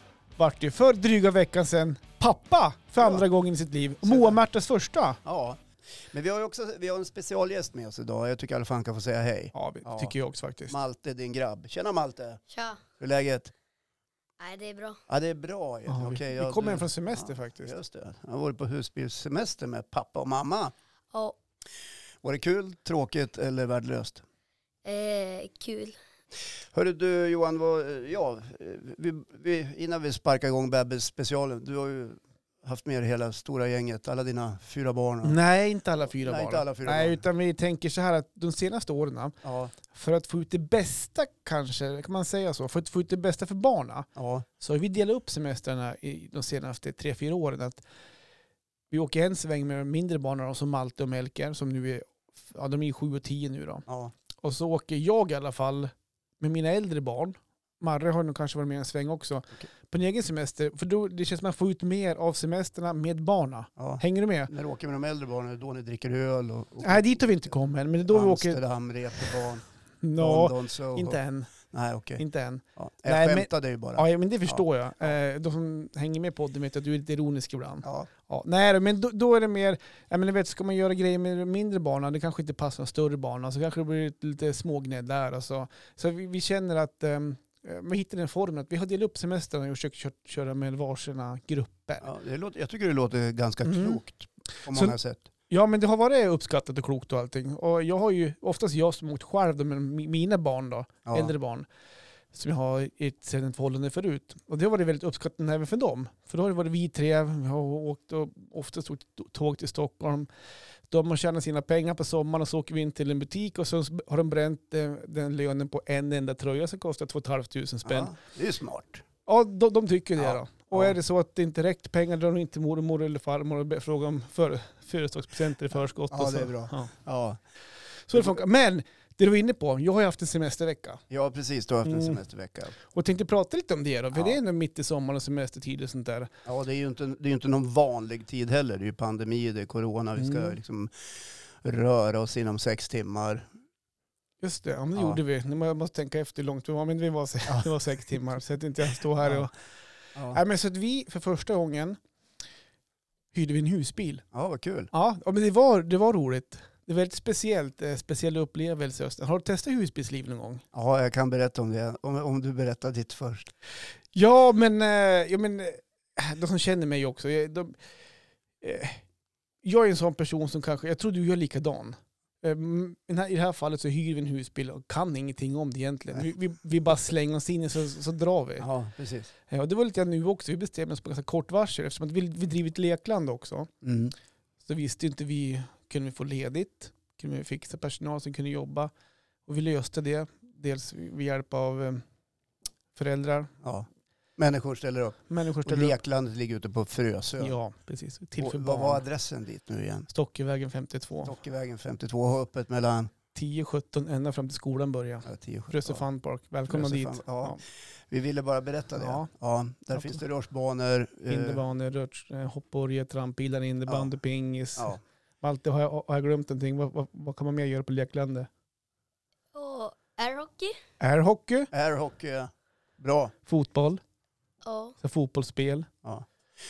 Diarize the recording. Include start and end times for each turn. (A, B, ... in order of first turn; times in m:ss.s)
0:00.4-0:05.2 A
0:04.0-0:04.4 B
0:05.2-0:10.1 B
0:09.5-0:10.8 A
0:10.7-0:12.4 B
0:12.5-0:12.8 C
0:13.0-0:13.5 B
0:14.4-0:15.0 C
0:15.1-0:20.7 B
0:15.9-0:17.7 A
0:22.2-0:24.2 B
0:24.8-0:26.0 C
0:26.7-0:35.4 B
0:35.2-0:44.1 A
0:36.1-0:37.2 B
0:39.4-0:39.7 B
0:44.2-0:44.4 B
0:44.6-0:47.8 A
0:48.9-0:53.8 A
0:53.9-0:54.1 B
0:54.4-1:04.5 A
1:03.8-1:07.5 B
1:06.8-1:08.6 A
1:08.1-1:09.6 B
1:10.0-1:11.5 A
1:10.2-1:12.2 B
1:12.2-1:32.1 A
1:12.8-1:15.1 B
1:17.8-1:18.1 B
1:32.0-1:35.3 B
1:33.6-1:34.0 A
1:34.7-1:35.0 A
1:35.5-1:41.7 A
1:41.0-1:41.3 B
1:42.3-1:50.3 A
1:50.9-1:58.1 A
1:57.8-1:59.0 B
1:59.2-2:06.9 A
2:00.2-2:00.9 B
2:06.1-2:07.4 B
2:08.1-2:11.0 A
2:11.1-2:12.7 B
2:11.9-2:12.2 A
2:12.8-2:16.3 A
2:16.4-2:20.9 B
2:20.2-2:20.5 A
2:21.6-2:23.5 B
2:24.4-2:29.5 A
2:29.2-2:29.5 B
2:30.3-2:32.0 A
2:33.3-2:34.2 A
2:34.3-2:34.9 B
2:34.9-2:40.6 A
2:40.7-2:43.5 B
2:44.1-2:47.8 A
2:48.6-2:49.0 A
2:49.6-2:58.7 A
2:58.6-2:59.3 B
2:59.5-3:03.7 A
3:03.8-3:04.1 B
3:04.6-3:08.9 A
3:09.4-3:12.0 A
3:12.9-3:13.5 A
3:13.6-3:17.6 B
3:15.3-3:16.0 A
3:17.4-3:19.0 A
3:18.4-3:20.1 B
3:20.1-3:21.3 A
3:21.2-3:23.1 B
3:23.3-3:27.6 A
3:25.2-3:26.0 B
3:26.7-3:31.6 B
3:29.0-3:29.3 A
3:29.9-3:30.2 A
3:31.3-3:38.5 A
3:39.5-3:40.8 C
3:41.0-3:41.7 A
3:41.7-3:43.3 B
3:43.4-3:44.0 A
3:44.6-3:45.0 C
3:45.0-3:45.9 A